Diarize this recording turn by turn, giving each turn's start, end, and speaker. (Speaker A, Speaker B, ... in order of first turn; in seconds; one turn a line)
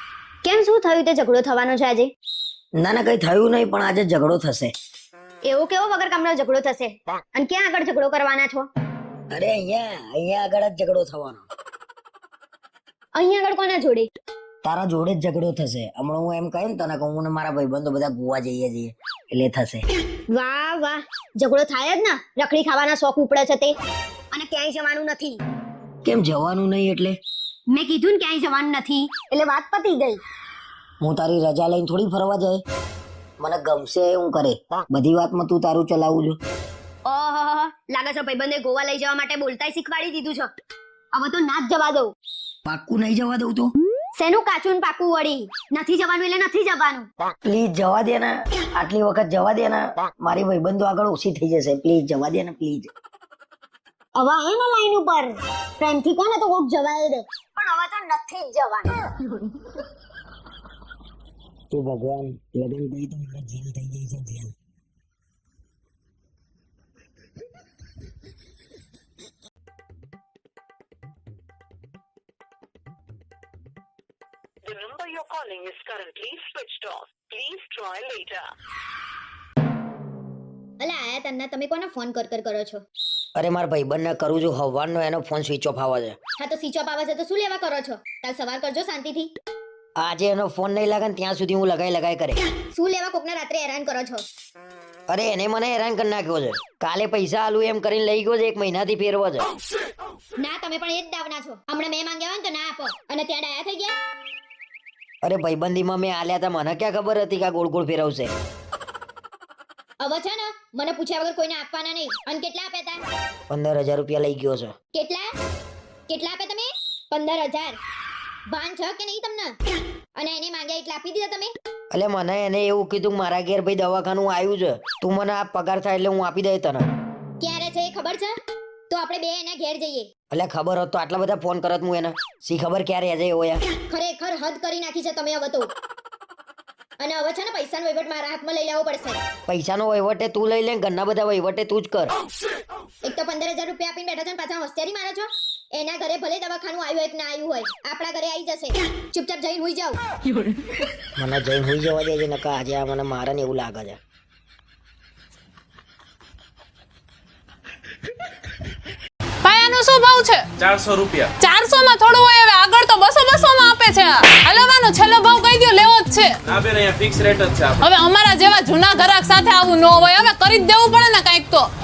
Speaker A: 0.4-2.1
Speaker B: 2.8-4.7
Speaker A: 5.4-8.7
Speaker B: 9.3-11.5
Speaker A: 13.1-14.1
Speaker B: 14.6-19.9
Speaker A: 20.3-23.8
Speaker A: 24.3-25.4
Speaker B: 26.0-27.2
Speaker A: 27.7-30.2
Speaker B: 31.0-32.6
Speaker B: 33.4-36.4
Speaker A: 37.0-40.5
Speaker A: 41.1-42.1
Speaker B: 42.6-43.7
Speaker A: 44.2-47.1
Speaker B: 47.4-52.9
Speaker A: 54.1-59.5
Speaker B: 61.7-64.5
Speaker C: 74.7-78.5
Speaker A: 80.8-82.8
Speaker B: 83.4-86.2
Speaker A: 86.4-89.3
Speaker B: 90.0-92.4
Speaker A: 92.7-94.2
Speaker B: 95.1-99.5
Speaker A: 100.4-104.0
Speaker B: 105.2-108.3
Speaker A: 110.0-113.0
Speaker B: 113.5-114.7
Speaker A: 114.9-115.3
Speaker A: 116.1-117.8
Speaker A: 118.5-119.5
Speaker A: 120.2-121.5
Speaker B: 121.9-126.9
Speaker A: 127.4-128.3
Speaker A: 128.9-130.1
Speaker B: 130.3-133.6
Speaker A: 133.9-135.7
Speaker A: 137.0-139.2
Speaker B: 139.5-142.1
Speaker A: 143.0-150.0
Speaker B: 151.2-154.0
Speaker D: 159.4-160.4
Speaker E: 160.6-161.3
Speaker D: 161.4-166.3
Speaker E: 166.5-167.8
Speaker D: 167.8-171.7